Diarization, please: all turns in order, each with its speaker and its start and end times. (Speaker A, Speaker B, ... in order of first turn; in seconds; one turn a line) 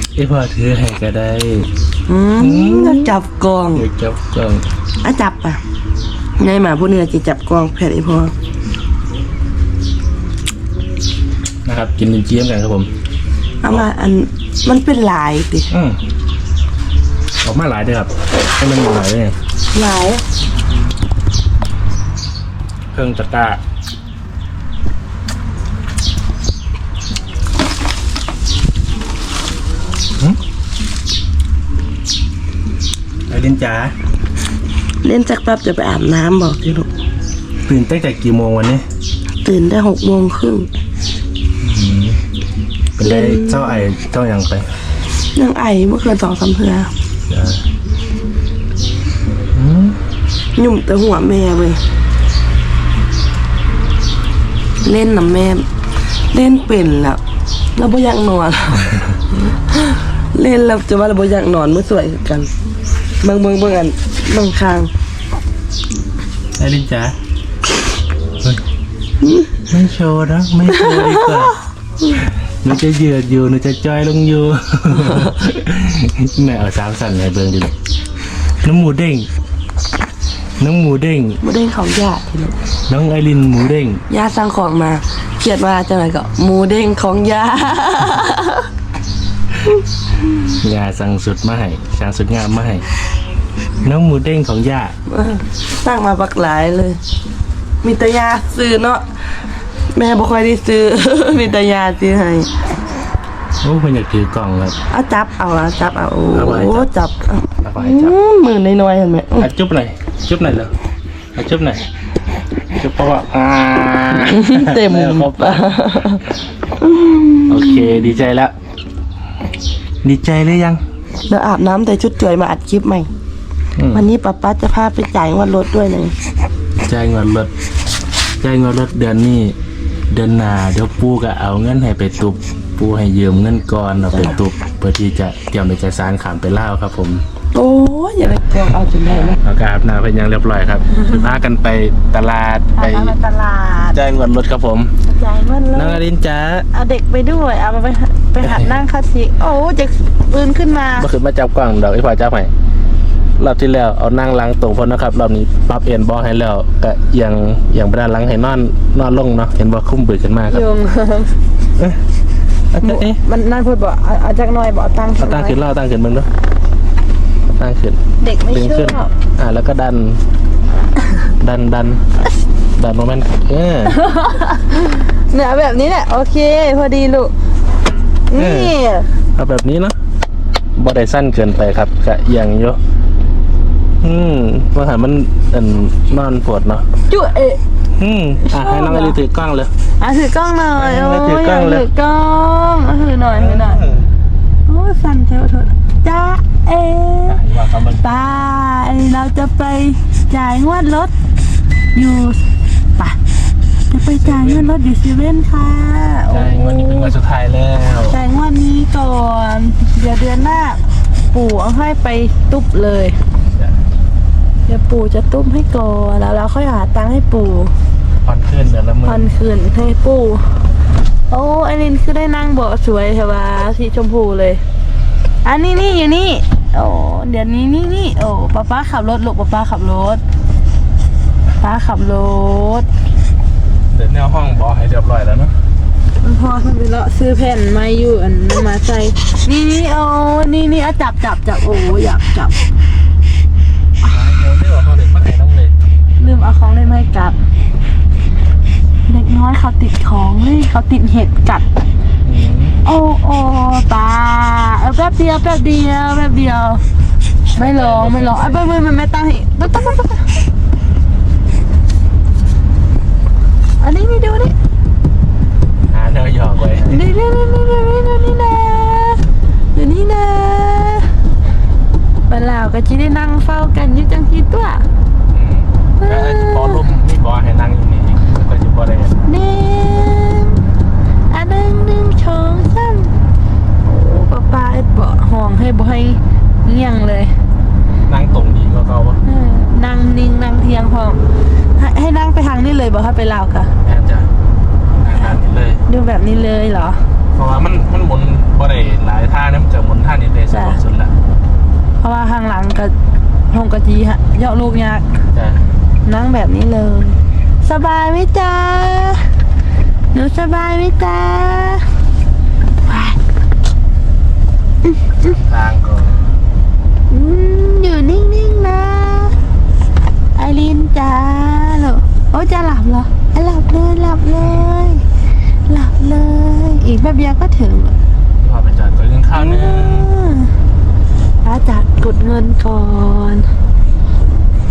Speaker A: 0.2-1.7
Speaker B: 2.1-3.9
Speaker A: 2.4-3.1
Speaker A: 3.7-4.7
Speaker B: 5.0-5.6
Speaker B: 6.4-8.3
Speaker A: 11.7-12.9
Speaker B: 13.6-15.7
Speaker A: 15.7-16.0
Speaker A: 17.4-19.4
Speaker B: 19.7-20.2
Speaker A: 22.9-23.6
Speaker A: 33.3-33.9
Speaker B: 35.0-36.9
Speaker A: 37.7-38.9
Speaker B: 39.4-40.7
Speaker A: 41.6-42.2
Speaker A: 43.0-44.7
Speaker B: 43.0-43.8
Speaker B: 45.4-46.9
Speaker A: 47.3-47.6
Speaker A: 49.5-50.0
Speaker B: 50.6-51.8
Speaker B: 54.8-55.7
Speaker B: 56.3-57.2
Speaker B: 57.8-62.5
Speaker B: 63.2-64.9
Speaker A: 66.6-67.1
Speaker B: 69.2-69.5
Speaker A: 69.7-71.6
Speaker A: 72.2-77.8
Speaker A: 78.6-79.3
Speaker A: 80.6-81.4
Speaker B: 81.4-82.6
Speaker A: 82.9-84.0
Speaker B: 84.1-88.7
Speaker A: 90.6-92.8
Speaker A: 93.8-94.9
Speaker B: 95.1-97.0
Speaker B: 97.8-99.1
Speaker B: 99.9-102.5
Speaker A: 103.6-104.8
Speaker B: 104.9-109.5
Speaker A: 106.3-106.9
Speaker A: 107.6-108.2
Speaker A: 109.4-110.7
Speaker A: 111.3-111.8
Speaker A: 112.8-115.8
Speaker B: 114.2-116.2
Speaker B: 116.8-118.1
Speaker A: 117.5-118.5
Speaker A: 120.0-120.8
Speaker B: 121.3-123.1
Speaker A: 123.8-124.1
Speaker B: 123.9-126.1
Speaker A: 126.9-127.5
Speaker A: 128.4-129.6
Speaker A: 130.1-137.2
Speaker B: 134.1-134.4
Speaker B: 137.5-139.4
Speaker A: 139.3-143.2
Speaker C: 142.8-144.0
Speaker A: 143.9-144.9
Speaker C: 145.1-146.0
Speaker A: 145.8-146.7
Speaker C: 146.7-151.1
Speaker A: 148.4-148.8
Speaker A: 151.0-152.5
Speaker A: 153.4-160.7
Speaker C: 160.5-161.4
Speaker A: 162.7-163.2
Speaker C: 162.8-165.6
Speaker A: 165.2-166.3
Speaker A: 167.5-168.0
Speaker C: 168.2-169.1
Speaker A: 168.5-170.2
Speaker A: 171.4-172.0
Speaker A: 172.8-174.0
Speaker C: 173.9-177.3
Speaker C: 178.3-179.1
Speaker A: 178.3-178.8
Speaker A: 179.4-179.9
Speaker A: 180.8-182.8
Speaker A: 184.0-186.9
Speaker C: 187.1-187.6
Speaker A: 188.0-189.7
Speaker C: 188.5-189.2
Speaker C: 190.0-193.8
Speaker A: 190.8-191.9
Speaker A: 193.2-194.1
Speaker C: 194.7-197.4
Speaker A: 197.3-198.2
Speaker C: 198.0-201.1
Speaker C: 201.9-202.4
Speaker C: 203.9-207.1
Speaker A: 204.2-204.7
Speaker A: 206.3-208.2
Speaker C: 208.1-210.8
Speaker C: 211.3-213.2
Speaker C: 214.7-217.7
Speaker A: 218.2-219.3
Speaker C: 219.1-220.4
Speaker C: 221.3-224.6
Speaker C: 225.4-230.2
Speaker C: 231.6-232.9
Speaker A: 233.9-235.6
Speaker C: 236.2-242.6
Speaker A: 244.0-245.8
Speaker C: 246.2-247.4
Speaker C: 249.1-251.7
Speaker A: 252.2-252.8
Speaker C: 252.8-256.8
Speaker C: 257.5-260.4
Speaker A: 257.6-258.7
Speaker C: 263.8-264.5
Speaker A: 265.9-267.0
Speaker C: 266.8-269.2
Speaker C: 269.8-271.1
Speaker C: 272.3-274.9
Speaker A: 275.3-279.2
Speaker C: 276.0-276.9
Speaker C: 279.3-280.6
Speaker C: 281.3-283.1
Speaker C: 283.8-287.3
Speaker A: 288.1-289.2
Speaker C: 289.3-291.2
Speaker C: 291.8-293.7
Speaker A: 293.8-294.3
Speaker A: 295.0-295.8
Speaker C: 295.9-297.0
Speaker A: 297.4-301.1
Speaker C: 300.5-300.8
Speaker C: 302.0-302.9
Speaker C: 303.5-305.1
Speaker A: 305.3-305.6
Speaker C: 306.1-309.3
Speaker C: 310.1-311.9
Speaker C: 312.9-313.2
Speaker C: 314.9-315.3
Speaker A: 315.2-316.3
Speaker C: 317.1-319.4
Speaker C: 320.4-325.0
Speaker A: 324.4-324.7
Speaker C: 325.7-327.9
Speaker A: 328.4-330.1
Speaker C: 329.4-330.5
Speaker C: 331.4-333.5